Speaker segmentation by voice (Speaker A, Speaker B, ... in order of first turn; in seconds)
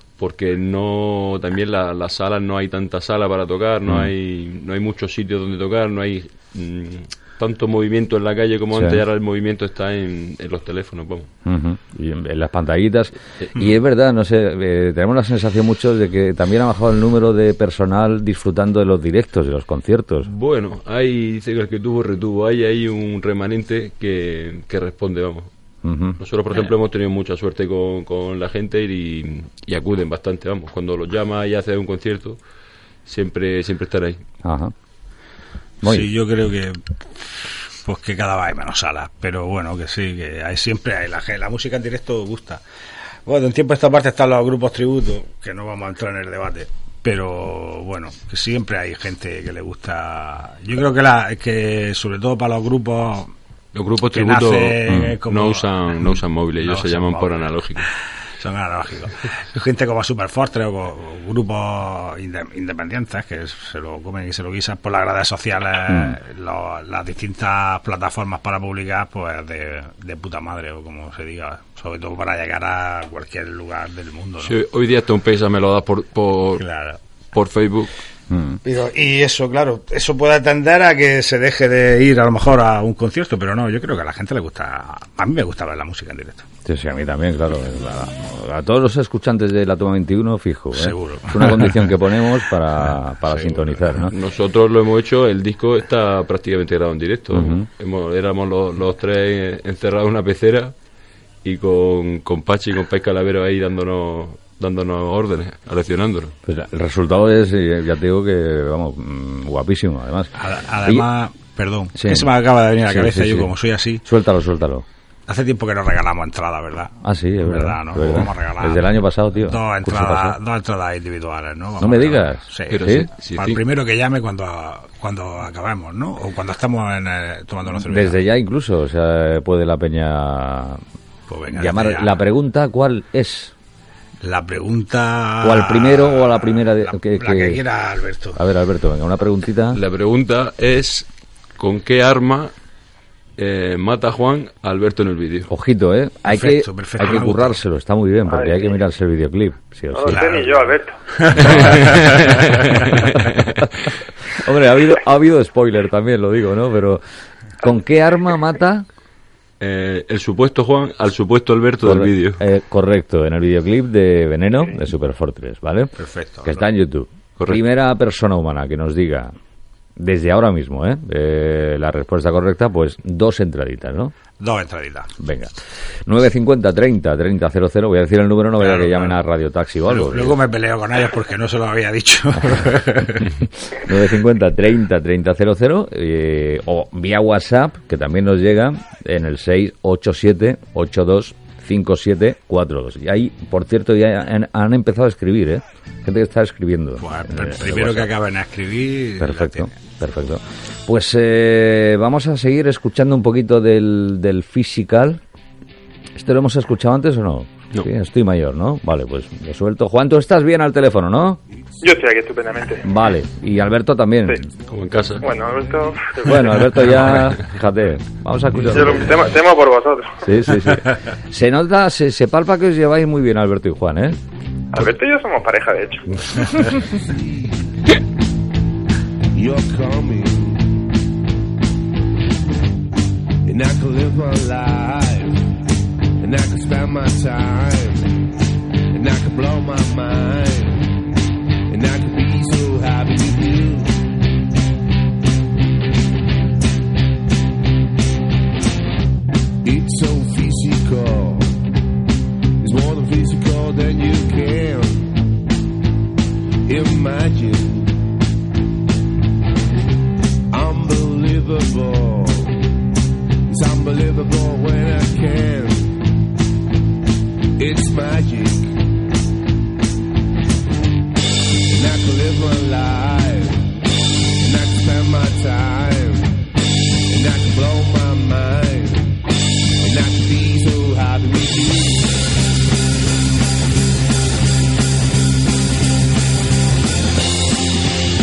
Speaker A: 0.2-11.3, 20.2-25.5, 26.2-32.4, 33.1-34.2, 53.7-57.9, 74.4-76.7, 77.3-77.9, 94.1-100.7, 101.4-106.3, 122.7-123.6, 139.7-141.1, 141.6-142.5, 143.4-145.5, 151.4-153.6, 159.6-162.4, 214.7-215.2, 217.0-217.3
Speaker B: 3.9-4.1, 8.7-9.0, 11.4-20.3, 25.8-26.2, 34.4-34.7, 35.8-36.1, 54.9-55.2, 65.9-66.2, 78.3-78.6, 86.7-94.1, 97.3-97.7, 106.5-110.3, 112.0-112.3, 112.9-113.5, 114.0-114.8, 117.0-120.4, 121.8-123.1, 127.8-130.8, 131.5-133.5, 135.4-137.6, 138.3-139.8, 145.5-150.2, 154.3-157.0, 157.6-158.9, 161.8-169.3, 170.0-174.1, 175.2-175.5, 176.1-180.4, 183.2-198.1, 199.2-205.2, 206.2-211.4, 212.8-214.5, 216.2-219.3, 220.2-224.2
Speaker C: 35.8-42.6, 43.2-53.3, 54.1-57.5, 58.4-74.5, 76.6-77.0, 78.6-86.5, 90.8-92.0, 93.3-93.8, 110.4-114.0, 115.3-128.2, 131.3-132.1, 134.2-138.4, 146.3-147.6, 150.1-152.8, 166.0-166.6, 174.4-175.1, 178.6-179.2, 179.9-183.3, 197.0-199.7
Speaker D: 148.3-148.7, 149.9-151.0, 211.8-212.9, 215.2-216.7, 218.7-220.2, 224.7-226.5
Speaker E: 226.8-227.5, 229.3-230.8, 233.4-235.5, 236.2-238.3, 238.9-241.0, 241.7-244.0, 249.6-251.6, 252.6-255.2, 256.7-258.0, 260.5-262.6, 263.5-266.0, 267.6-268.8, 271.7-273.8, 274.4-276.5, 277.1-279.2, 279.8-282.2